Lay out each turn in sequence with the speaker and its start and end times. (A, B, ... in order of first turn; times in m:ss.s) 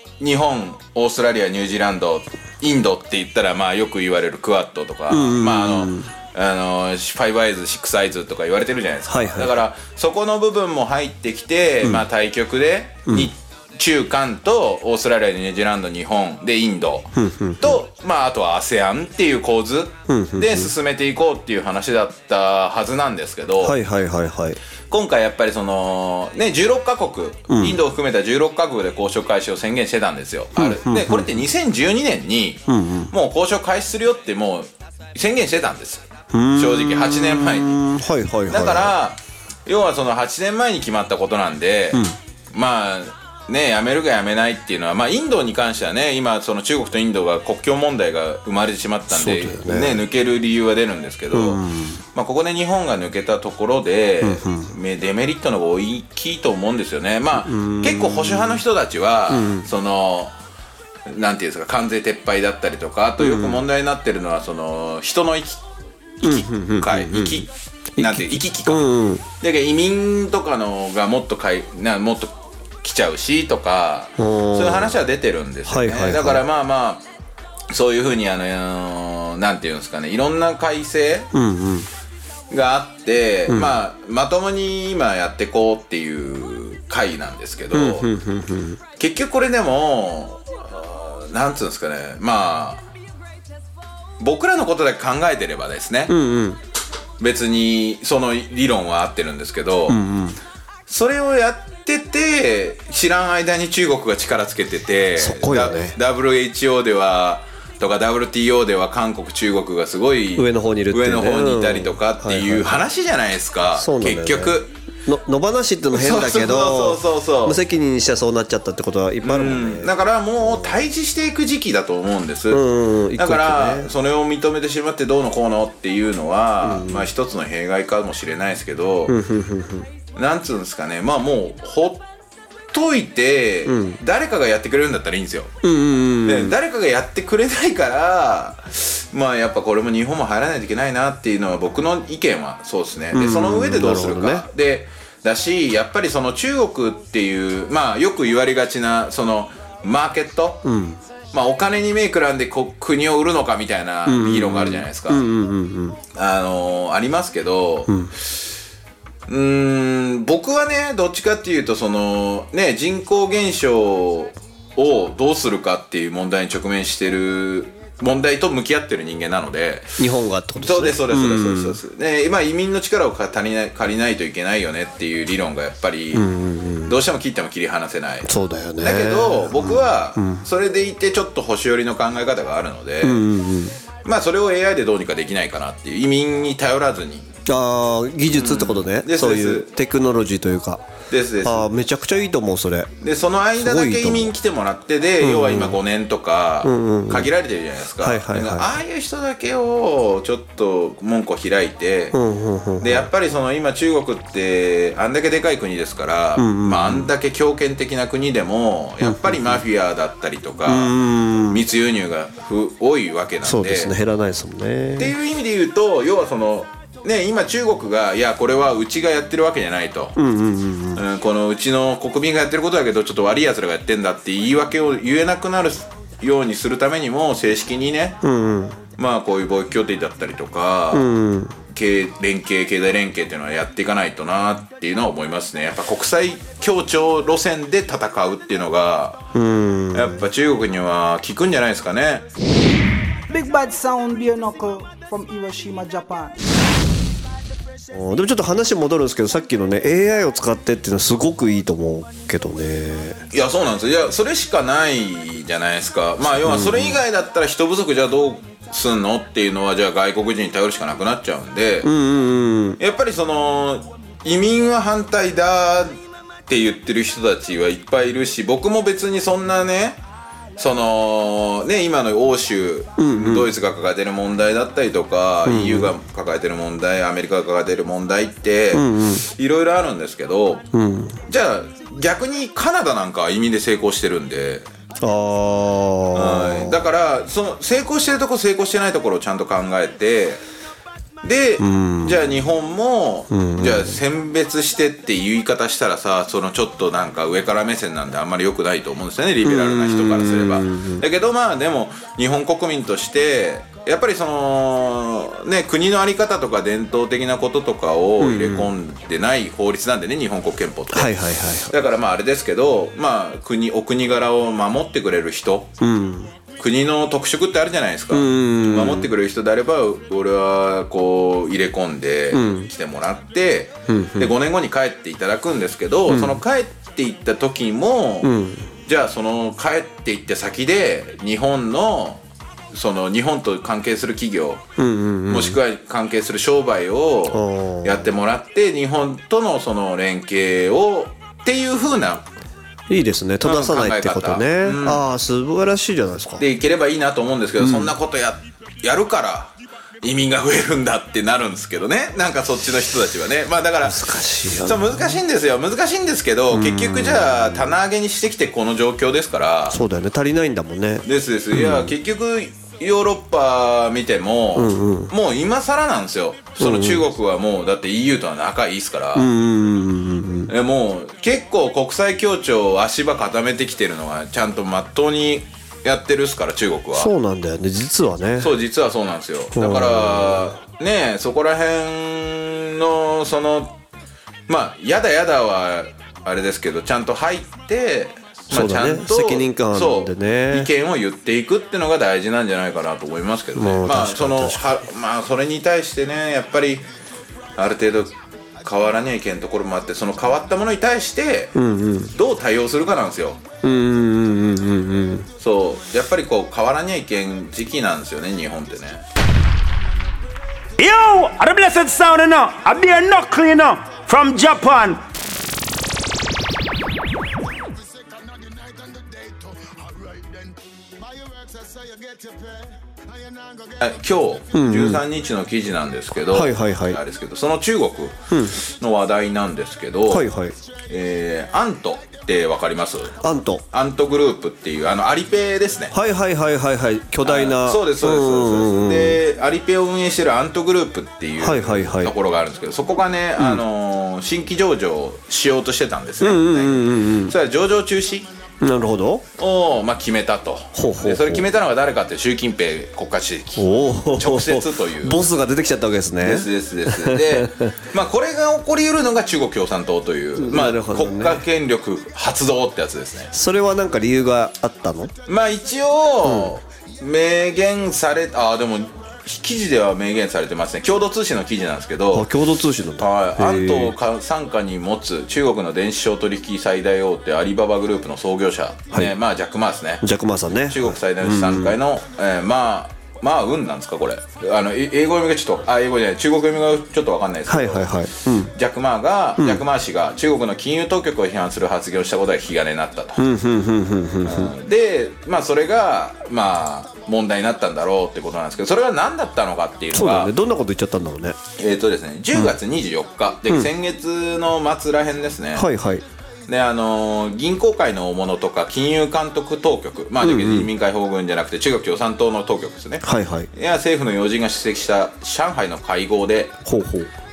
0:00.2-0:23.8 A
0:05.1-0:06.1 B
0:09.1-0:09.6 B
0:17.2-0:17.8 B
0:20.1-0:20.7 B
0:23.6-0:24.6 B
0:24.9-0:37.7 A
0:27.5-0:27.8 B
0:30.6-0:31.5 B
0:32.7-0:33.1 B
0:36.3-0:39.0 B
0:38.5-0:51.6 A
0:49.1-0:50.0 B
0:51.3-0:52.0 B
0:52.1-1:00.3 A
0:54.2-0:54.8 B
0:57.4-0:58.6 B
0:59.3-0:59.7 B
1:01.1-1:05.6 A
1:03.2-1:03.7 B
1:06.2-1:08.8 A
1:06.2-1:09.2 B
1:09.4-1:17.0 A
1:14.2-1:15.0 B
1:15.6-1:16.4 B
1:17.7-1:21.3 A
1:21.3-1:21.9 B
1:22.5-1:28.1 A
1:23.5-1:23.8 B
1:27.7-1:28.8 B
1:29.0-1:32.8 A
1:34.2-1:36.1 A
1:36.1-1:36.6 B
1:37.2-1:40.0 A
1:39.9-1:40.4 B
1:40.9-1:54.7 A
1:45.2-1:46.0 B
1:50.4-1:52.9 B
1:53.7-2:00.8 B
1:55.9-1:57.6 A
1:59.2-2:09.2 A
2:02.5-2:03.9 B
2:06.6-2:07.1 B
2:09.1-2:09.9 B
2:10.1-2:12.0 A
2:12.7-2:15.5 A
2:13.6-2:14.0 B
2:15.6-2:16.6 B
2:16.2-2:30.6 A
2:23.1-2:24.4 B
2:30.6-2:31.0 B
2:31.3-2:35.2 A
2:34.0-2:36.0 B
2:36.1-2:37.9 A
2:37.9-2:38.1 B
2:39.3-2:50.0 A
2:50.0-2:51.8 B
2:50.6-2:56.2 A
2:56.1-2:57.0 B
2:56.8-2:58.3 A
2:58.2-3:00.4 B
2:58.8-3:03.2 A
3:03.0-3:03.8 B
3:04.0-3:07.3 A
3:07.5-3:10.8 B
3:08.3-3:09.7 A
3:11.1-3:11.7 A
3:11.4-3:12.9 B
3:13.0-3:22.2 A
3:13.6-3:14.3 B
3:15.2-3:15.8 B
3:16.6-3:17.3 B
3:18.0-3:18.7 B
3:22.1-3:23.1 B
3:22.8-3:30.9 A
3:26.4-3:27.1 B
3:29.0-3:29.6 B
3:30.6-3:31.6 B
3:31.5-3:33.9 A
3:33.4-3:35.2 B
3:35.0-3:40.1 A
3:40.2-3:41.0 B
3:40.9-3:48.2 A
3:48.2-3:48.8 B
3:49.0-3:51.1 A
3:50.9-3:51.6 B
3:51.7-3:59.3 A
3:59.3-4:00.2 B
3:59.9-4:02.2 A
4:03.3-4:06.4 C
4:07.9-4:13.2 B
4:13.3-4:21.9 A
4:16.4-4:17.0 B
4:21.8-4:22.8 B
4:22.8-4:25.9 A
4:26.5-4:30.0 A
4:30.6-4:40.6 A
4:33.0-4:33.5 B
4:35.4-4:35.9 B
4:38.7-4:39.2 B
4:40.7-4:41.2 B
4:41.2-4:44.7 A
4:45.0-4:46.8 B
4:46.1-4:50.4 A
4:51.2-5:15.7 A
4:51.6-4:52.2 B
4:53.3-4:54.0 B
4:59.4-5:01.0 B
5:08.2-5:08.8 B
5:10.9-5:11.8 B
5:15.8-5:16.3 B
5:16.6-5:28.3 A
5:18.1-5:19.1 B
5:22.3-5:22.7 B
5:23.9-5:24.4 B
5:26.1-5:26.4 B
5:28.2-5:28.7 B
5:28.8-5:34.6 A
5:34.8-5:35.6 B
5:35.3-5:42.2 A
5:37.3-5:38.1 B
5:42.9-5:46.4 B
5:43.4-5:45.0 A
5:46.4-5:59.8 A
5:47.6-5:47.9 B
5:53.8-5:55.2 B
5:56.5-5:57.8 B
5:59.7-6:01.9 B
6:01.0-6:09.3 A
6:04.5-6:05.1 B
6:06.6-6:07.1 B
6:09.1-6:10.5 B
6:10.5-6:17.1 A
6:16.9-6:18.5 B
6:18.4-6:23.8 A
6:19.5-6:20.5 B
6:24.5-6:36.8 A
6:28.5-6:30.7 B
6:33.5-6:34.7 B
6:37.6-6:41.5 A
6:41.5-6:42.1 B
6:42.1-6:43.4 A
6:43.6-6:45.3 B
6:45.4-6:49.0 A
6:50.8-6:55.0 D
7:03.8-7:10.2 A
7:04.5-7:05.0 B
7:06.1-7:07.0 B
7:08.3-7:08.6 B
7:10.1-7:10.5 B
7:10.9-7:13.2 A
7:13.2-7:13.6 B
7:13.7-7:15.9 A
7:15.9-7:19.2 B
7:17.2-7:28.3 A
7:21.4-7:22.1 B
7:23.4-7:23.6 B
7:26.2-7:27.3 B
7:28.6-7:29.2 B
7:29.4-7:35.2 A
7:30.7-7:31.5 B
7:33.6-7:37.7 B
7:36.2-7:43.3 A
7:40.4-7:41.4 B
7:43.3-7:45.1 B
7:45.3-7:52.3 A
7:46.2-7:46.6 B
7:52.1-7:53.9 B
7:53.0-8:00.0 A
8:00.0-8:01.8 B
8:00.7-8:08.0 A
8:07.4-8:08.5 B
8:08.5-8:13.2 A
8:09.4-8:09.6 B
8:13.2-8:14.5 B
8:14.2-8:20.3 A
8:19.9-8:21.4 B
8:21.6-8:25.7 A
8:25.5-8:26.0 B
8:26.5-8:36.5 A
8:30.2-8:30.7 B
8:33.0-8:33.5 B
8:36.6-8:37.1 B